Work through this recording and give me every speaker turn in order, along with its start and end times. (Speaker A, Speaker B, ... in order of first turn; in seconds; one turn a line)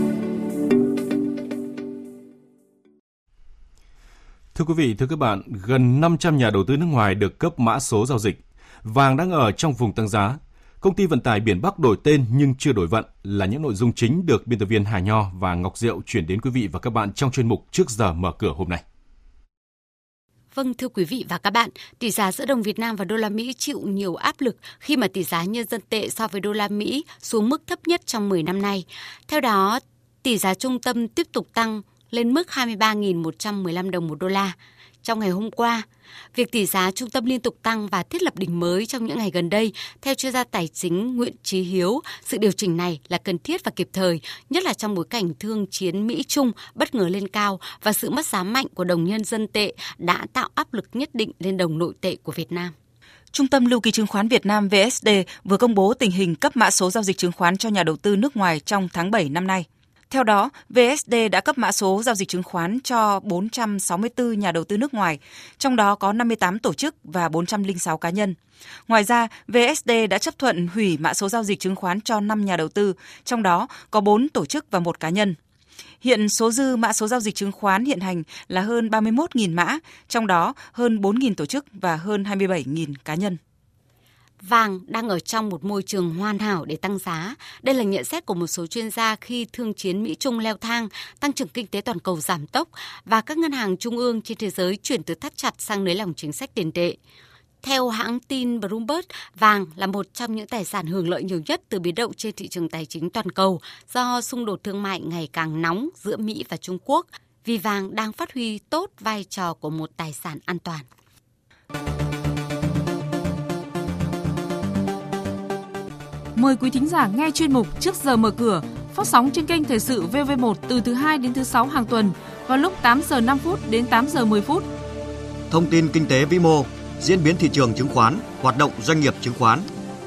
Speaker A: 4.5-18.8
Speaker B: 20.5-52.7
Speaker C: 53.3-68.4
Speaker C: 68.9-75.4
Speaker C: 76.0-83.4
Speaker B: 84.4-97.0
Speaker B: 97.6-110.9
Speaker D: 116.3-124.7
Speaker E: 125.5-129.7